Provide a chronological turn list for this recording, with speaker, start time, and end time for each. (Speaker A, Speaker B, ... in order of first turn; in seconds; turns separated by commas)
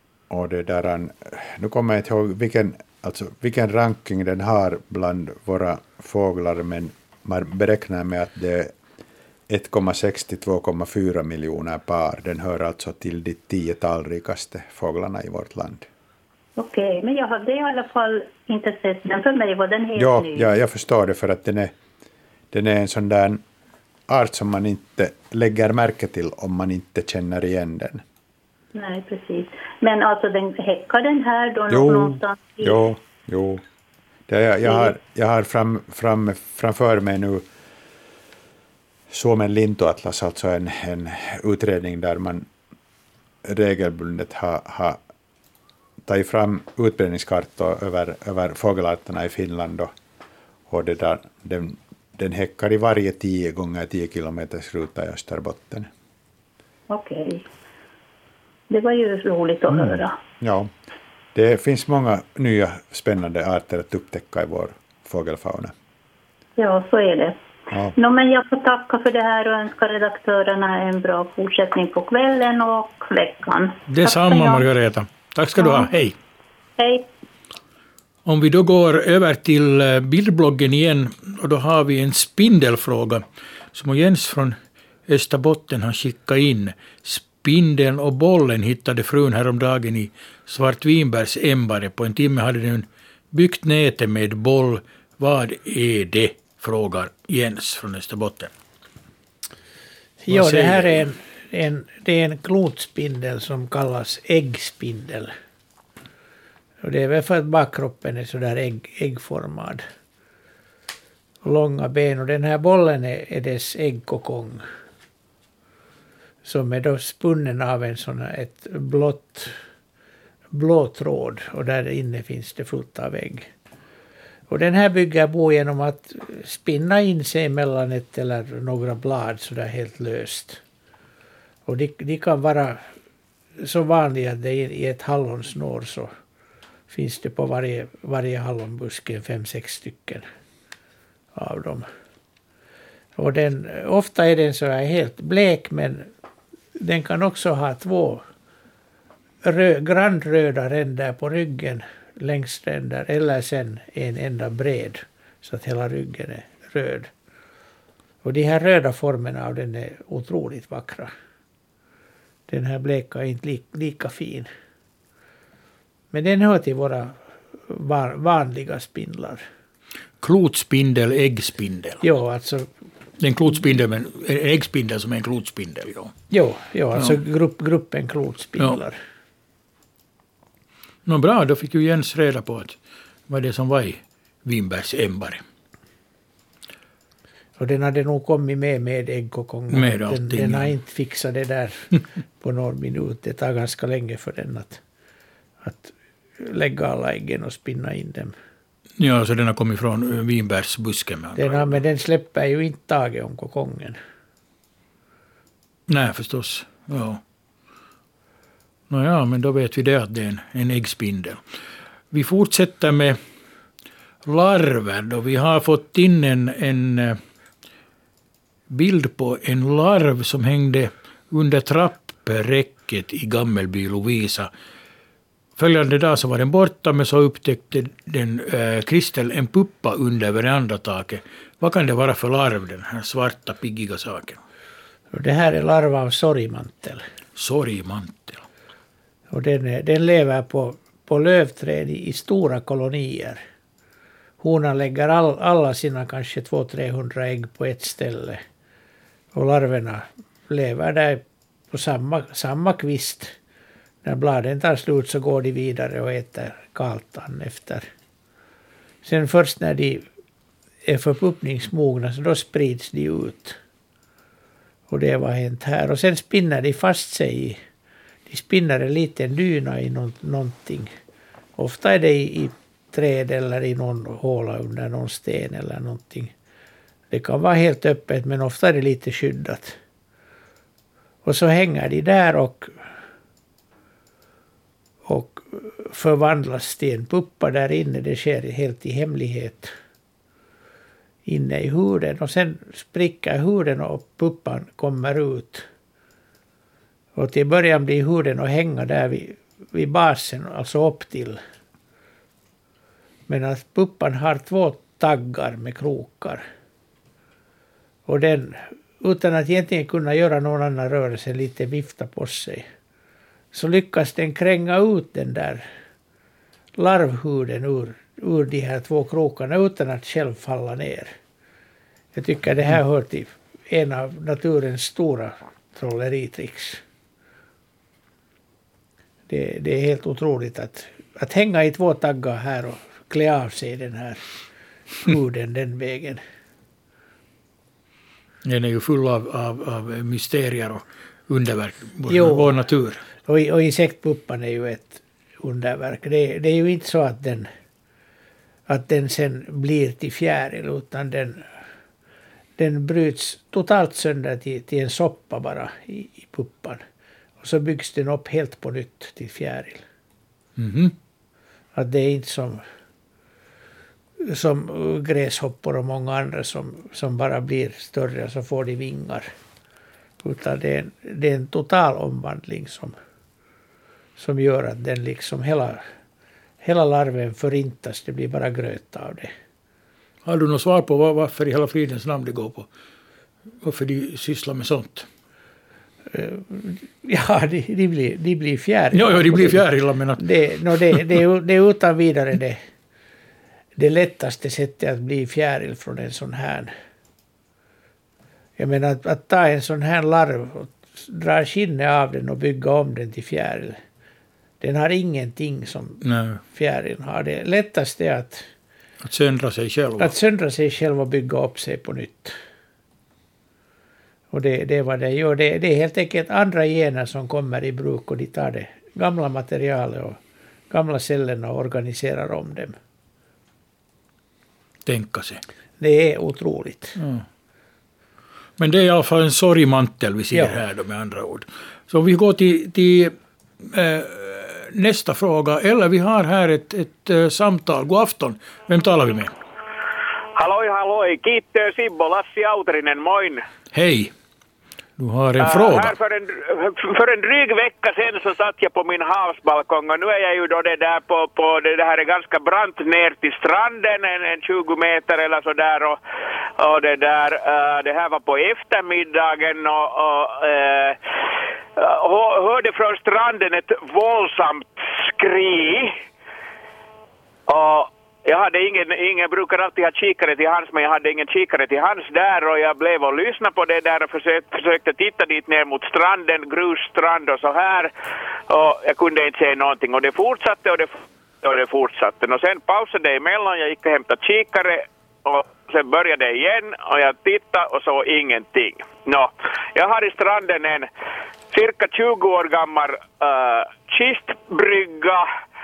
Speaker A: 0.3-8.7, Speaker A: 9.5-15.9, Speaker B: 16.6-20.5, Speaker A: 20.0-21.8, Speaker A: 22.5-23.4, Speaker A: 24.1-28.0, Speaker B: 28.8-32.9, Speaker A: 31.7-33.6, Speaker A: 34.3-37.5, Speaker B: 34.6-34.9, Speaker A: 39.1-42.5, Speaker A: 43.5-45.0, Speaker A: 46.1-49.9, Speaker A: 50.7-55.9, Speaker B: 56.9-57.5, Speaker B: 58.7-60.2, Speaker A: 59.7-60.7, Speaker A: 61.4-65.7, Speaker B: 66.6-67.4, Speaker A: 67.7-68.0, Speaker B: 68.0-74.7, Speaker C: 73.9-76.2, Speaker B: 75.6-75.9, Speaker B: 76.8-77.1, Speaker C: 78.3-98.5, Speaker D: 100.2-105.3, Speaker C: 100.3-101.0, Speaker D: 106.8-109.8, Speaker D: 111.4-114.6, Speaker D: 116.5-119.6, Speaker D: 120.5-123.5, Speaker D: 124.5-130.6, Speaker D: 131.7-132.9, Speaker D: 133.6-136.1, Speaker D: 136.9-140.2, Speaker D: 141.3-141.9, Speaker D: 143.2-146.1, Speaker D: 146.8-148.2, Speaker D: 149.4-157.1, Speaker D: 158.2-161.1, Speaker D: 162.5-164.5, Speaker D: 166.1-169.4, Speaker C: 170.2-172.0, Speaker D: 172.0-172.7, Speaker C: 173.2-176.2, Speaker D: 176.3-179.0, Speaker C: 181.1-182.8, Speaker C: 183.3-185.4, Speaker D: 187.6-194.8, Speaker C: 189.7-190.7, Speaker D: 195.6-198.3, Speaker C: 199.0-201.8, Speaker D: 201.4-204.0, Speaker C: 205.9-207.2, Speaker C: 208.9-211.4, Speaker C: 212.1-213.2, Speaker C: 214.2-217.2, Speaker C: 218.7-224.5, Speaker C: 225.6-234.4, Speaker D: 235.1-237.0, Speaker C: 237.4-238.5, Speaker D: 239.3-243.4, Speaker D: 244.4-248.4, Speaker D: 249.3-253.4, Speaker D: 254.0-257.9, Speaker D: 259.0-260.1, Speaker D: 260.9-263.6, Speaker D: 264.9-267.6, Speaker D: 268.3-270.9, Speaker D: 271.6-276.3, Speaker D: 277.1-279.8, Speaker D: 281.2-282.7, Speaker D: 285.1-289.7, Speaker D: 291.3-295.7, Speaker D: 297.2-301.4, Speaker D: 303.3-306.4, Speaker D: 308.1-312.7, Speaker D: 313.5-315.6, Speaker D: 316.8-321.1, Speaker D: 322.1-326.8, Speaker D: 329.3-334.2, Speaker D: 335.0-336.2, Speaker C: 338.4-343.0, Speaker D: 342.1-342.6, Speaker D: 343.2-347.5, Speaker D: 348.7-351.5, Speaker D: 352.6-356.8, Speaker D: 357.4-359.8, Speaker C: 360.6-360.9, Speaker D: 361.8-362.6, Speaker D: 364.2-369.3, Speaker D: 370.2-372.9, Speaker D: 374.2-375.8, Speaker D: 376.6-379.3, Speaker C: 380.2-382.7, Speaker C: 383.6-385.1, Speaker D: 386.1-389.6, Speaker C: 388.9-390.2, Speaker D: 390.2-392.6, Speaker D: 393.8-396.7, Speaker D: 398.6-403.8, Speaker D: 404.6-408.5, Speaker C: 406.0-406.4, Speaker C: 409.0-410.1, Speaker D: 410.0-412.4, Speaker D: 414.3-420.2, Speaker D: 420.7-422.8, Speaker C: 424.9-425.4, Speaker D: 425.8-427.0, Speaker C: 427.0-427.2, Speaker C: 428.6-439.3, Speaker E: 440.4-443.4, Speaker C: 443.7-444.1, Speaker C: 445.0-445.9, Speaker E: 445.4-456.0, Speaker E: 456.6-461.0, Speaker E: 461.8-465.9, Speaker E: 467.5-477.9, Speaker E: 478.5-490.9, Speaker E: 491.5-495.3